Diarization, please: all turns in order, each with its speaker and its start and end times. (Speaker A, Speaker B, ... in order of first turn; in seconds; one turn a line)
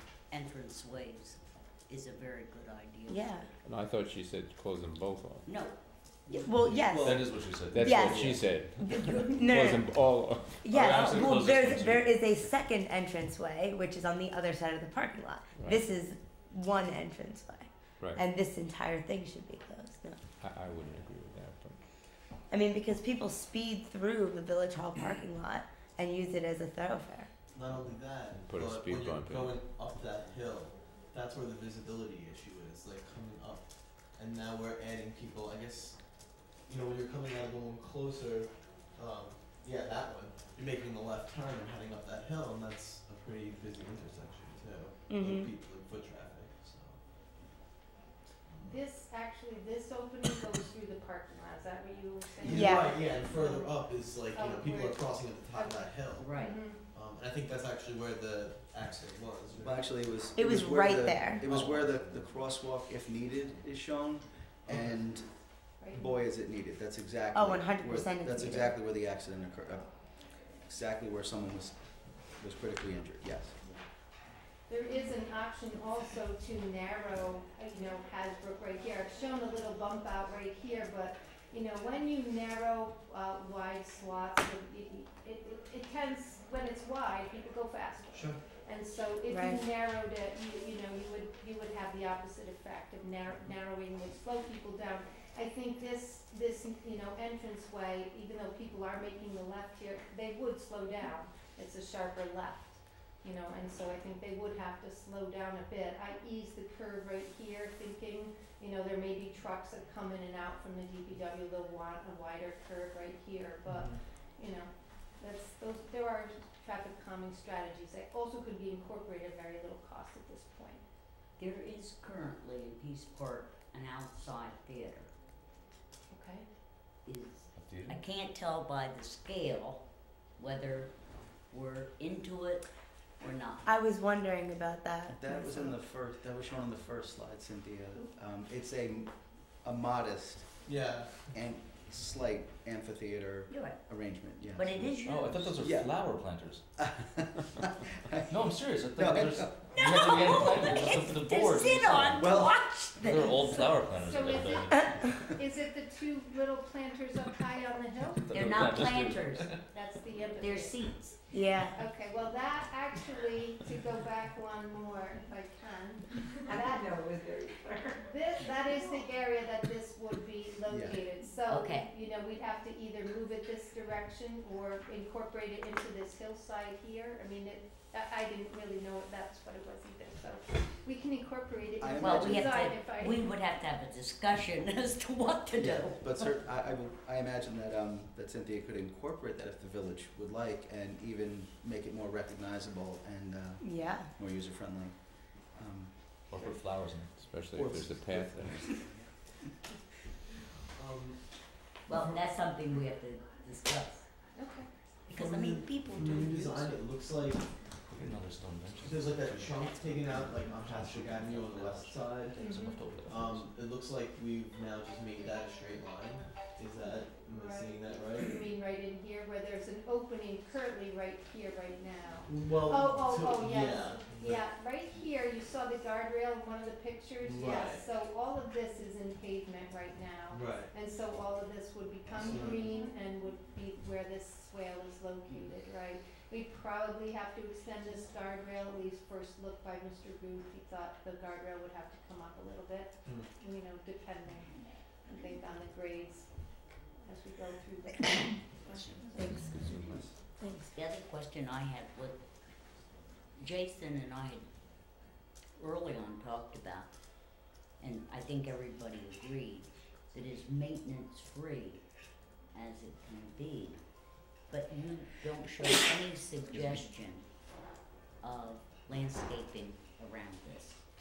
Speaker A: 0.3-3.4
Speaker B: 3.1-3.5
Speaker C: 3.6-5.5
Speaker A: 5.5-5.8
Speaker B: 6.3-7.2
Speaker D: 6.3-8.6
Speaker E: 6.7-8.4
Speaker C: 7.7-10.7
Speaker B: 7.8-8.3
Speaker A: 9.0-9.3
Speaker B: 9.2-9.9
Speaker B: 10.6-20.2
Speaker E: 10.7-12.2
Speaker C: 15.6-15.9
Speaker C: 20.4-21.8
Speaker B: 22.5-27.3
Speaker D: 27.5-36.0
Speaker C: 28.3-29.6
Speaker D: 36.5-47.0
Speaker B: 45.1-45.5
Speaker D: 48.5-48.8
Speaker F: 48.6-56.8
Speaker D: 52.4-56.3
Speaker B: 52.4-52.9
Speaker A: 56.2-56.6
Speaker D: 56.9-59.9
Speaker G: 59.6-71.8
Speaker B: 60.4-61.5
Speaker D: 61.4-62.1
Speaker D: 64.7-65.1
Speaker F: 65.8-66.1
Speaker B: 67.3-68.8
Speaker G: 72.3-73.6
Speaker F: 74.7-120.8
Speaker D: 88.1-88.4
Speaker B: 89.3-89.6
Speaker D: 113.7-114.0
Speaker A: 121.4-125.1
Speaker F: 126.1-126.5
Speaker A: 127.0-129.8
Speaker E: 127.5-128.0
Speaker A: 130.4-130.9
Speaker A: 131.5-132.7
Speaker A: 133.2-133.7
Speaker B: 133.7-135.7
Speaker G: 135.1-140.5
Speaker D: 140.7-141.4
Speaker G: 141.3-144.9
Speaker A: 143.5-143.8
Speaker A: 144.6-145.6
Speaker E: 145.0-146.6
Speaker G: 145.5-146.0
Speaker G: 146.8-148.3
Speaker E: 148.3-155.2
Speaker G: 148.9-149.5
Speaker A: 149.7-153.4
Speaker G: 152.2-152.7
Speaker F: 153.2-158.3
Speaker E: 158.2-159.6
Speaker A: 158.3-159.6
Speaker F: 159.7-161.2
Speaker A: 160.4-161.2
Speaker B: 161.3-161.8
Speaker F: 161.7-167.0
Speaker B: 166.5-167.8
Speaker F: 168.0-183.3
Speaker G: 170.7-171.0
Speaker A: 171.5-171.9
Speaker G: 181.8-182.7
Speaker A: 182.0-186.3
Speaker G: 185.6-196.5
Speaker B: 193.6-194.1
Speaker E: 196.3-197.2
Speaker C: 197.2-198.8
Speaker G: 197.5-199.1
Speaker D: 200.8-201.2
Speaker A: 201.9-204.1
Speaker F: 204.3-204.7
Speaker A: 205.1-206.8
Speaker D: 205.2-207.5
Speaker E: 207.9-213.5
Speaker D: 208.8-212.5
Speaker A: 209.6-209.9
Speaker F: 212.4-212.9
Speaker D: 213.1-218.4
Speaker F: 216.8-244.6
Speaker D: 222.3-224.4
Speaker D: 227.2-227.8
Speaker D: 230.3-230.7
Speaker D: 232.1-232.7
Speaker D: 243.1-243.3
Speaker F: 245.1-246.3
Speaker F: 247.0-249.4
Speaker A: 248.7-249.4
Speaker B: 249.2-249.6
Speaker G: 249.5-250.1
Speaker C: 249.6-249.9
Speaker B: 250.4-250.7
Speaker A: 250.7-252.2
Speaker A: 253.4-254.5
Speaker A: 255.6-256.9
Speaker A: 257.8-261.9
Speaker A: 262.5-263.8
Speaker A: 264.5-267.3
Speaker E: 266.5-266.9
Speaker A: 268.2-270.8